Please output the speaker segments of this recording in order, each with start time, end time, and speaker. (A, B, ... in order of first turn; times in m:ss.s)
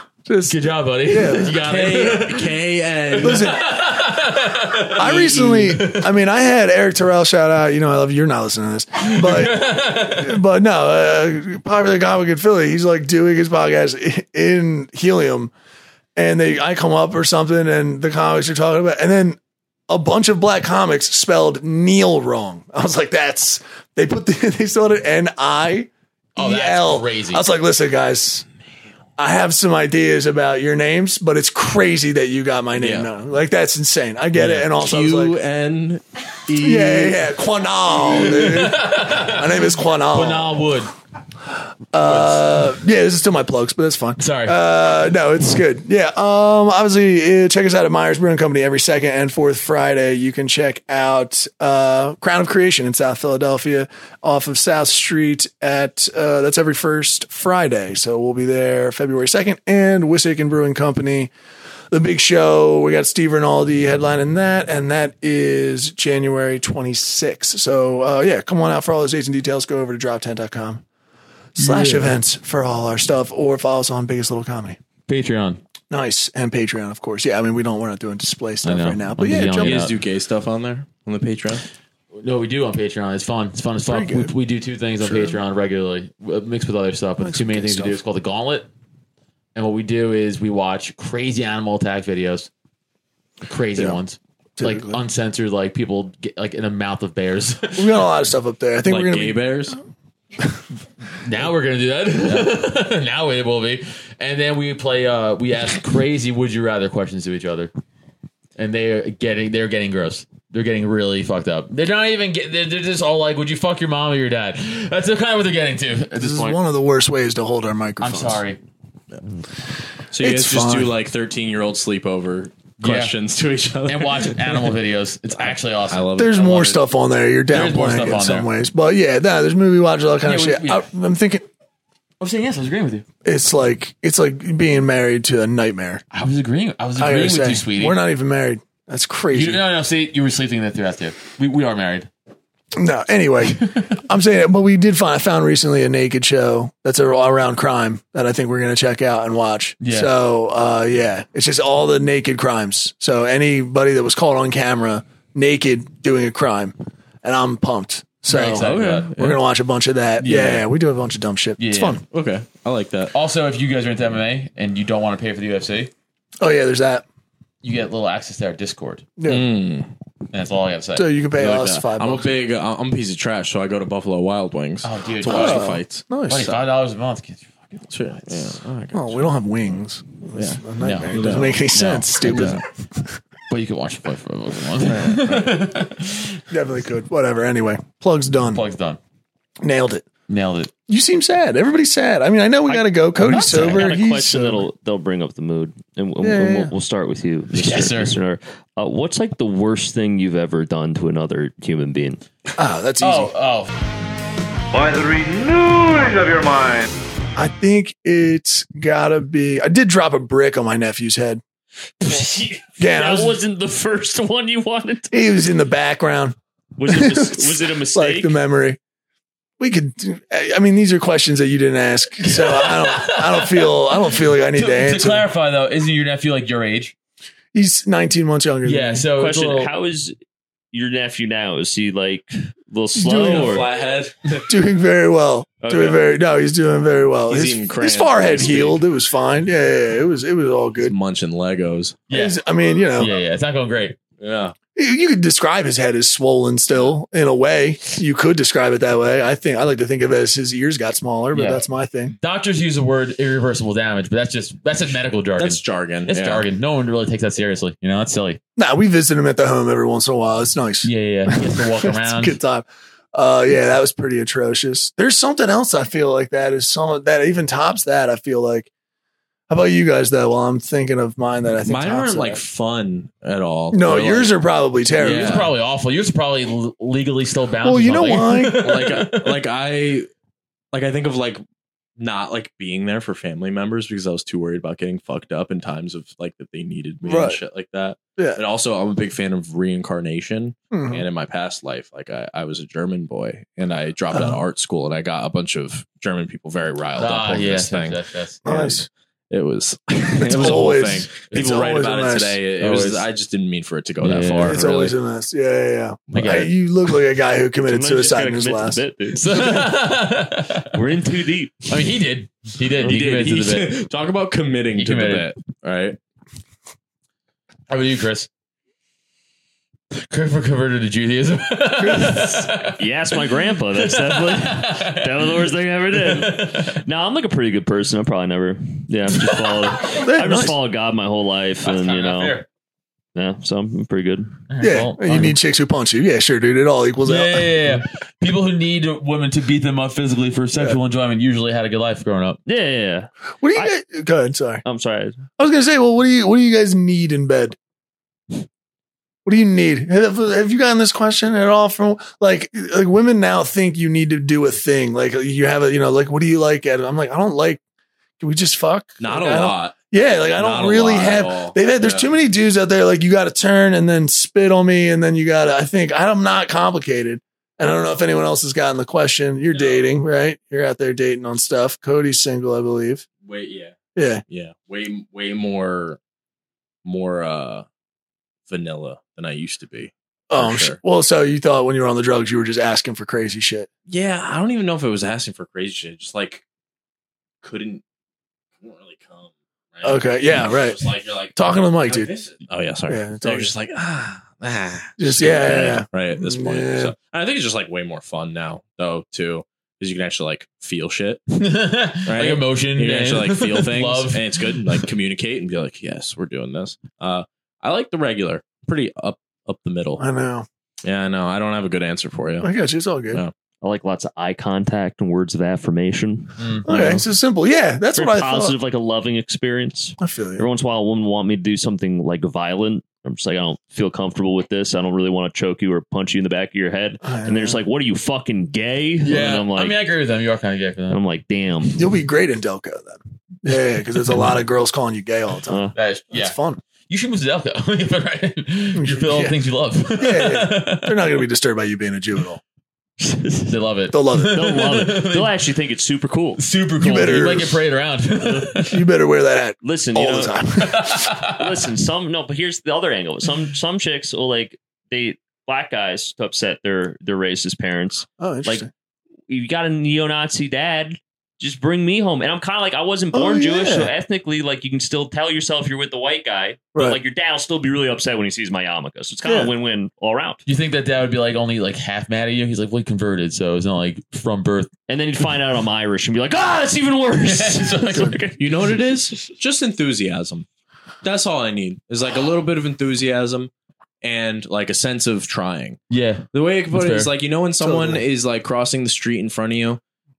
0:00.2-0:01.6 A
0:00.5-0:02.6 B
0:01.6-0:03.6 C
0:03.1-0:06.1 B
0:03.2-0:03.7 A
0:05.0-0:15.5 A
0:05.0-0:05.8 C
0:09.0-0:10.4 B
0:16.2-0:28.4 A
0:26.4-0:27.4 B
0:29.2-0:35.4 A
0:32.8-0:33.1 C
0:34.4-0:37.2 C
0:36.6-0:40.6 A
0:38.1-0:40.9 B
0:41.9-1:01.3 A
0:42.0-0:42.7 B
0:44.2-0:44.6 B
1:01.9-1:10.8 A
1:11.6-1:14.8 A
1:11.6-1:12.1 B
1:15.1-1:15.6 B
1:15.9-1:19.8 A
1:18.6-1:19.9 B
1:19.6-1:21.6 C
1:22.1-1:28.7 B
1:23.8-1:24.3 A
1:25.0-1:25.4 A
1:27.2-1:28.0 A
1:29.5-1:32.5 B
1:33.4-1:38.0 B
1:34.6-1:35.0 A
1:37.7-1:39.8 A
1:38.8-1:39.8 C
1:41.2-1:47.7 B
1:48.6-1:56.6 B
1:56.2-1:58.4 A
1:58.0-1:58.6 B
2:00.1-2:04.7 C
2:00.2-2:00.9 A
2:02.8-2:03.1 B
2:03.8-2:06.2 B
2:05.3-2:06.8 C
2:06.1-2:11.4 A
2:07.5-2:08.5 B
2:10.2-2:10.8 B
2:12.2-2:13.0 B
2:13.2-2:16.0 A
2:16.1-2:18.0 B
2:17.0-2:19.6 A
2:19.3-2:22.1 B
2:22.8-2:42.0 A
2:29.8-2:30.1 B
2:38.3-2:39.1 B
2:38.6-2:39.4 C
2:40.2-2:40.6 C
2:41.6-2:42.0 B
2:42.1-2:43.1 C
2:43.1-2:45.9 B
2:46.4-2:47.0 A
2:47.6-2:49.1 B
2:49.2-2:49.5 A
2:49.2-2:49.9 C
2:50.3-2:51.1 B
2:50.9-2:52.4 A
2:51.4-2:56.6 C
2:54.8-2:55.7 B
2:55.2-2:56.5 A
2:56.3-2:57.7 B
2:57.8-2:59.3 C
2:58.9-3:02.6 A
3:00.3-3:01.6 C
3:00.8-3:02.6 B
3:02.2-3:02.6 C
3:03.5-3:06.4 B
3:04.8-3:05.6 C
3:06.5-3:08.6 A
3:08.5-3:09.0 B
3:09.6-3:10.0 A
3:10.3-3:10.7 B
3:10.9-3:14.6 A
3:12.7-3:22.2 D
3:13.2-3:13.9 B
3:16.2-3:16.7 A
3:17.6-3:18.1 B
3:22.6-3:23.3 A
3:23.0-3:23.7 B
3:24.7-3:26.9 E
3:27.4-3:31.4 A
3:32.0-3:32.4 B
3:32.2-3:35.1 D
3:32.8-3:33.4 A
3:35.1-3:38.8 A
3:36.8-3:38.4 D
3:39.6-3:45.3 A
3:42.4-3:46.9 B
3:47.5-3:49.0 A
3:48.6-3:49.7 B
3:49.2-3:50.1 D
3:50.7-3:53.6 D
3:52.9-3:53.6 A
3:53.2-3:54.5 C
3:54.5-4:00.9 A
3:55.6-3:56.0 D
3:57.3-3:58.8 C
4:00.8-4:02.0 C
4:02.1-4:02.4 B
4:02.1-4:03.1 A
4:03.0-4:04.0 B
4:04.2-4:04.5 C
4:04.7-4:12.1 A
4:11.3-4:11.6 B
4:12.2-4:18.4 B
4:15.4-4:16.5 C
4:18.6-4:28.7 A
4:20.8-4:22.4 B
4:29.5-4:32.4 A
4:31.6-4:34.4 C
4:33.7-4:35.5 A
4:35.0-4:35.5 C
4:35.0-4:39.4 B
4:37.6-4:38.7 A
4:38.6-4:40.1 C
4:40.7-4:41.4 C
4:42.0-4:58.0 C
4:47.0-4:47.4 A
4:50.7-4:51.0 A
4:54.1-4:54.4 A
4:57.0-4:58.8 B
4:58.4-4:58.9 A
4:59.3-5:04.9 C
5:00.2-5:02.4 A
5:02.6-5:03.1 B
5:04.0-5:04.6 B
5:04.4-5:09.6 A
5:06.1-5:06.5 B
5:07.7-5:09.2 D
5:09.1-5:10.7 B
5:10.7-5:11.7 D
5:11.7-5:13.8 B
5:12.8-5:16.0 C
5:14.7-5:15.3 B
5:17.7-5:18.3 B
5:19.9-5:22.8 B
5:21.8-5:22.4 A
5:22.8-5:32.4 D
5:23.7-5:26.8 B
5:29.3-5:30.0 B
5:29.9-5:30.5 A
5:31.6-5:32.4 B
5:33.1-5:34.3 D
5:34.5-5:35.4 B
5:34.6-5:37.8 A
5:37.0-5:42.4 B
5:42.4-5:43.7 D
5:43.4-5:44.6 A
5:44.6-5:45.2 D
5:45.4-5:47.6 A
5:49.2-5:57.6 A
5:58.2-6:13.0 A
5:59.0-5:59.8 C
6:00.3-6:02.1 C
6:09.5-6:09.9 C
6:13.2-6:13.7 C
6:13.9-6:14.2 A
6:14.3-6:16.0 C
6:16.8-6:17.6 C
6:18.5-6:20.8 C
6:20.3-6:23.7 A
6:23.9-6:26.4 C
6:27.4-6:27.8 C
6:28.6-6:41.2 C
6:29.8-6:32.1 A
6:32.9-6:33.5 A
6:35.0-6:36.9 A
6:41.3-6:44.8 B
6:42.0-6:50.0 C
6:50.0-6:50.5 A
6:50.8-6:52.5 C
6:52.4-6:53.2 A
6:53.6-6:56.3 D
6:56.4-6:57.0 B
6:56.6-6:58.6 A
6:57.9-7:09.8 D
7:00.0-7:00.4 A
7:07.0-7:07.6 A
7:09.0-7:11.0 B
7:10.9-7:11.8 D
7:11.8-7:16.6 A
7:15.5-7:15.7 D
7:15.7-7:16.4 B
7:16.9-7:21.0 B
7:18.7-7:19.4 A
7:20.0-7:22.4 A
7:23.0-7:23.4 D
7:23.4-7:25.3 B
7:23.9-7:24.4 A
7:24.3-7:26.4 D
7:26.4-7:28.8 B
7:26.8-7:27.6 A
7:28.2-7:28.5 D
7:28.6-7:31.1 A
7:29.6-7:30.3 D
7:30.6-7:31.5 B
7:31.4-7:38.6 D
7:38.2-7:38.7 A
7:39.3-7:50.4 D
7:43.1-7:43.9 A
7:46.7-7:47.0 A
7:49.2-7:49.5 A
7:50.4-7:54.7 B
7:54.9-7:58.4 D
7:57.2-7:58.2 B
7:58.4-8:00.4 C
8:01.0-8:03.5 C
8:04.0-8:05.8 C
8:05.9-8:07.1 B
8:06.3-8:09.8 C
8:07.6-8:08.0 A